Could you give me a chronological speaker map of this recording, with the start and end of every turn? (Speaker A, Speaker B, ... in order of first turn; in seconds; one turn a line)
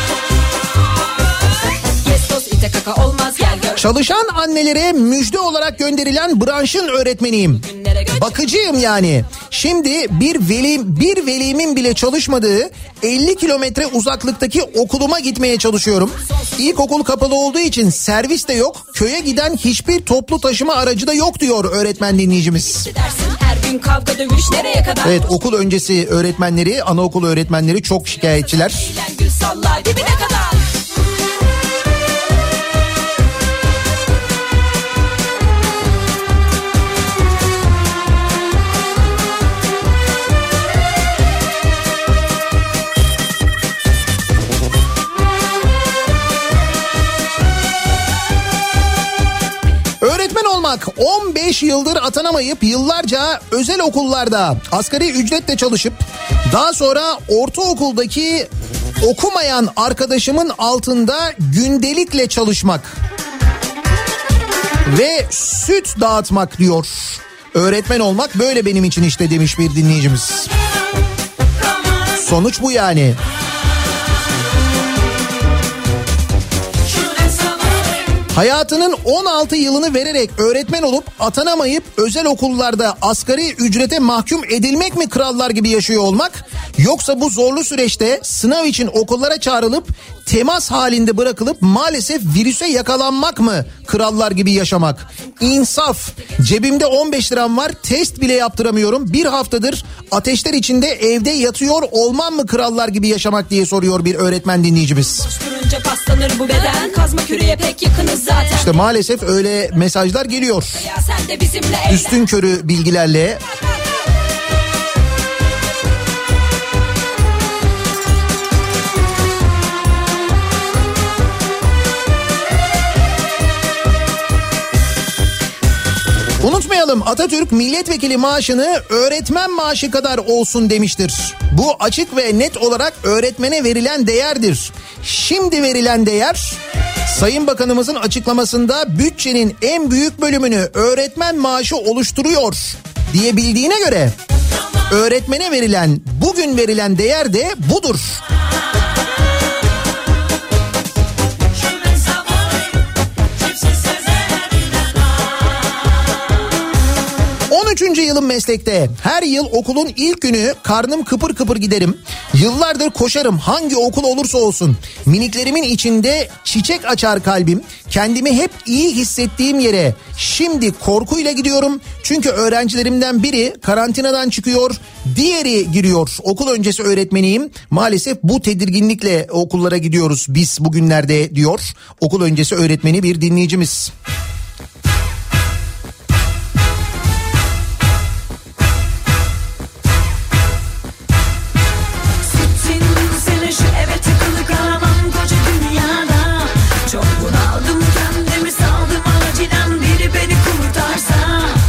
Speaker A: 2.0-3.8
Speaker B: 3.8-22.9
Speaker A: 7.6-8.2
Speaker A: 22.8-25.2
Speaker B: 25.0-28.9
Speaker A: 28.8-30.7
Speaker B: 50.0-58.5
Speaker B: 59.0-63.0
Speaker B: 64.8-70.5
Speaker B: 72.2-73.2
Speaker B: 78.3-105.3
Speaker A: 105.2-108.7
Speaker B: 108.5-110.8
Speaker A: 110.8-112.2
Speaker B: 111.9-113.4
Speaker B: 126.4-144.2
Speaker B: 144.9-148.2
Speaker B: 157.5-183.9
Speaker A: 192.5-195.6
Speaker A: 196.9-201.5